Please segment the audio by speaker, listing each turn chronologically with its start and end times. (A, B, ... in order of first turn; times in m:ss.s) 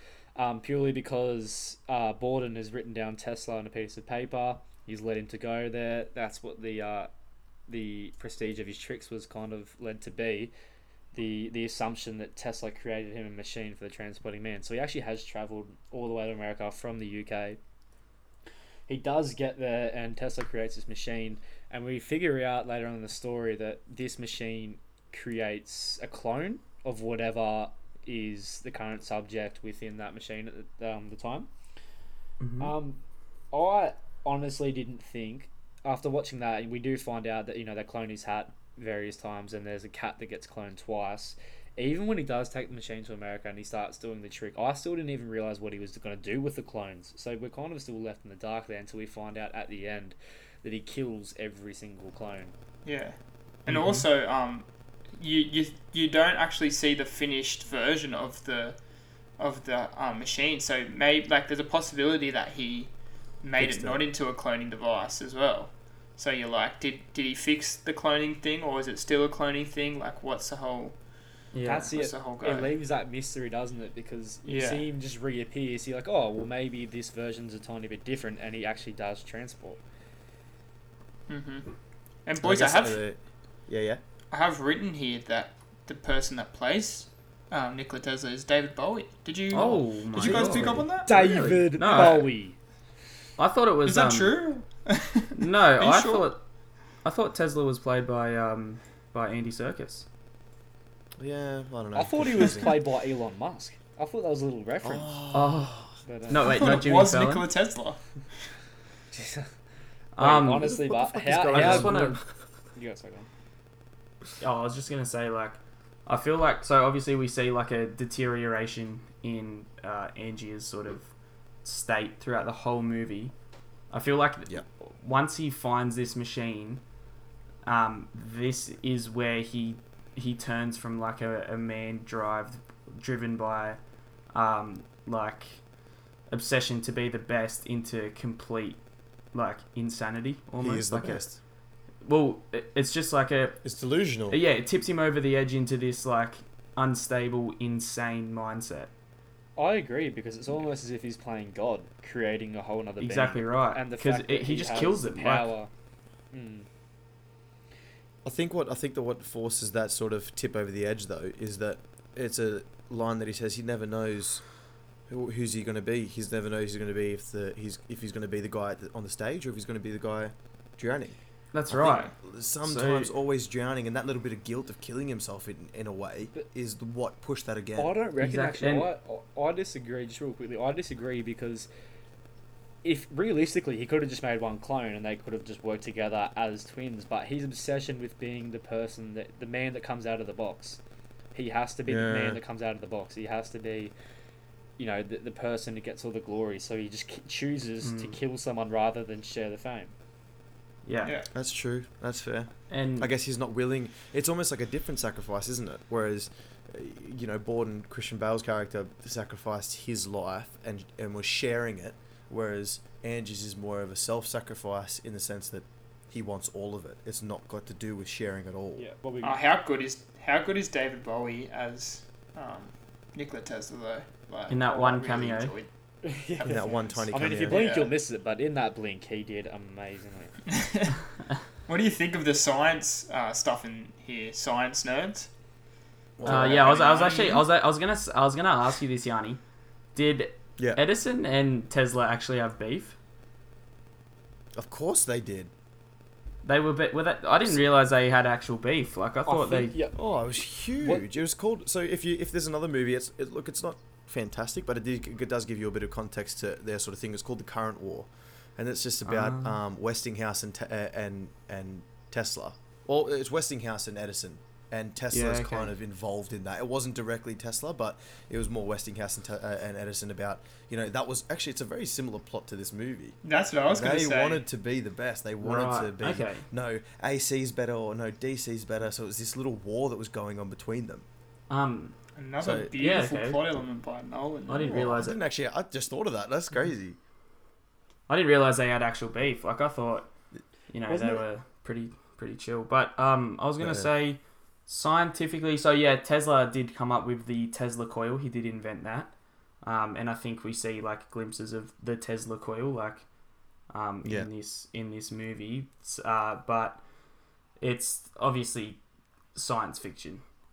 0:00.4-0:07.1 A
0:07.7-0:10.5 A
0:11.1-0:17.6 A
0:18.9-0:31.5 A
0:32.4-0:32.7 B
0:32.6-0:33.0 A
0:33.5-0:52.5 A
0:52.8-0:58.8 C
0:53.7-0:54.0 B
0:59.4-1:11.0 C
1:03.6-1:04.0 D
1:11.5-1:11.9 B
1:11.6-1:19.8 A
1:11.9-1:12.7 C
1:14.4-1:14.9 C
1:21.3-1:21.7 C
1:22.3-1:23.0 C
1:22.4-1:24.0 D
1:24.3-1:32.1 C
1:29.5-1:31.2 B
1:30.2-1:31.7 D
1:31.0-1:32.6 A
1:31.7-1:32.3 B
1:33.4-1:34.4 B
1:33.8-1:36.3 C
1:35.4-1:36.4 B
1:37.0-1:40.1 B
1:41.2-1:42.8 D
1:41.9-1:45.2 A
1:44.8-1:45.9 D
1:45.3-1:47.5 B
1:46.0-1:46.5 A
1:46.4-1:48.0 C
1:49.1-1:49.5 A
1:50.2-1:50.8 B
1:50.2-1:52.2 A
1:50.7-1:52.2 D
1:51.5-1:52.2 B
1:52.8-1:53.3 A
1:54.4-2:01.1 B
2:01.6-2:03.3 B
2:03.9-2:06.8 B
2:07.6-2:13.8 B
2:14.3-2:15.6 B
2:16.3-2:18.8 B
2:19.3-2:21.2 B
2:20.6-2:21.4 D
2:22.0-2:23.6 B
2:23.6-2:24.4 D
2:24.3-2:28.9 B
2:29.6-2:35.7 A
2:33.0-2:35.5 B
2:36.3-2:36.7 A
2:38.2-2:44.4 D
2:45.1-2:51.2 D
2:51.5-2:53.1 B
2:51.7-2:58.0 D
2:57.8-3:01.7 A
2:58.2-2:58.9 B
3:02.8-3:10.8 A
3:11.3-3:13.9 A
3:11.9-3:12.4 D
3:14.8-3:19.9 A
3:17.8-3:18.2 B
3:20.8-3:21.1 B
3:21.0-3:21.3 C
3:21.3-3:38.8 D
3:22.7-3:23.1 B
3:38.8-3:39.4 A
3:39.2-3:45.7 C
3:44.5-3:45.5 B
3:46.0-3:50.4 A
3:46.4-3:47.9 C
3:46.4-3:47.7 D
3:50.5-3:51.0 C
3:51.7-3:55.3 C
3:56.2-3:56.8 D
3:56.2-3:57.5 C
3:56.3-3:59.4 B
4:00.0-4:03.0 B
4:04.6-4:05.5 D
4:06.4-4:09.8 B
4:09.3-4:10.0 A
4:10.0-4:33.2 D
4:10.8-4:11.0 A
4:19.0-4:19.6 B
4:25.1-4:25.7 B
4:33.2-4:34.4 C
4:33.7-4:41.1 D
4:35.4-4:36.5 B
4:41.5-4:42.0 B
4:42.2-4:45.0 C
4:42.4-4:42.7 D
4:42.8-4:43.4 B
4:44.5-4:45.2 B
4:44.6-4:47.0 D
4:48.1-4:50.1 B
4:50.7-4:59.1 B
4:50.9-4:51.2 D
4:53.6-4:53.9 D
4:59.6-5:03.0 B
5:03.7-5:06.8 B
5:04.0-5:04.3 D
5:07.6-5:08.8 B
5:09.4-5:10.2 B